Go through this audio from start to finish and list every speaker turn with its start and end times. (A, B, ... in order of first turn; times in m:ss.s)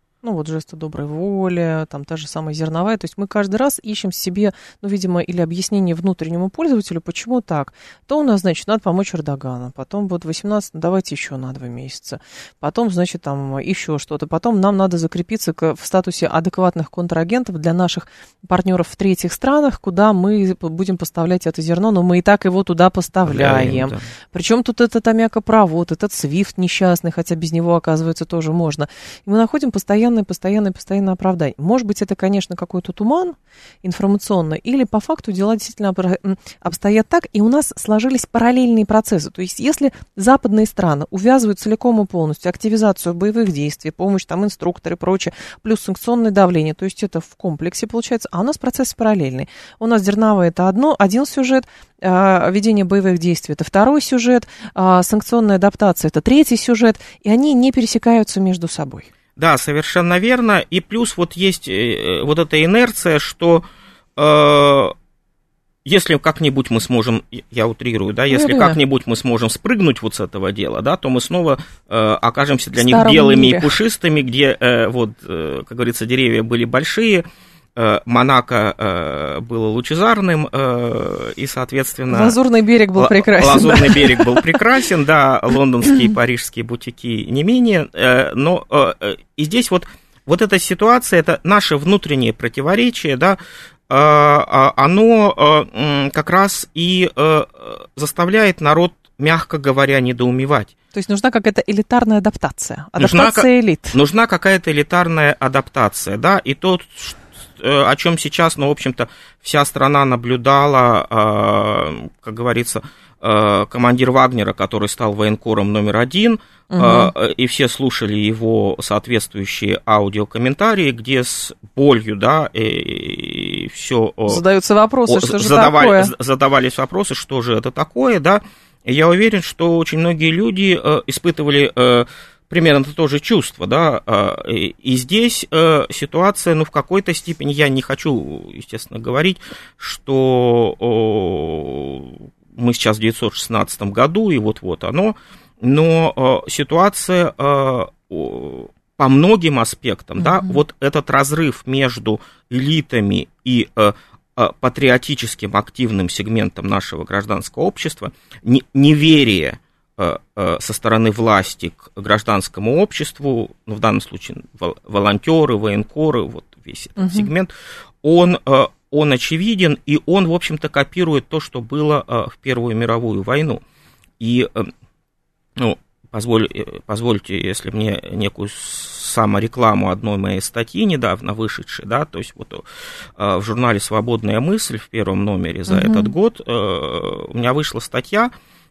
0:00.2-0:59.1 A
0:23.2-0:24.0 B
0:59.4-1:03.6 B
1:04.2-1:04.9 B
1:05.8-1:17.2 B
1:08.3-1:08.8 A
1:12.8-1:13.7 A
1:17.8-1:22.4 B
1:22.1-1:24.6 A
1:23.0-1:40.7 B
1:40.9-1:44.0 A
1:43.0-2:04.4 B
1:56.7-1:57.1 A
2:04.3-2:06.1 A
2:05.1-2:47.5 B
2:47.0-2:47.3 A
2:48.0-2:53.6 B
2:54.2-2:54.7 B
2:55.6-3:02.6 B
3:03.2-3:08.3 B
3:05.7-3:06.1 A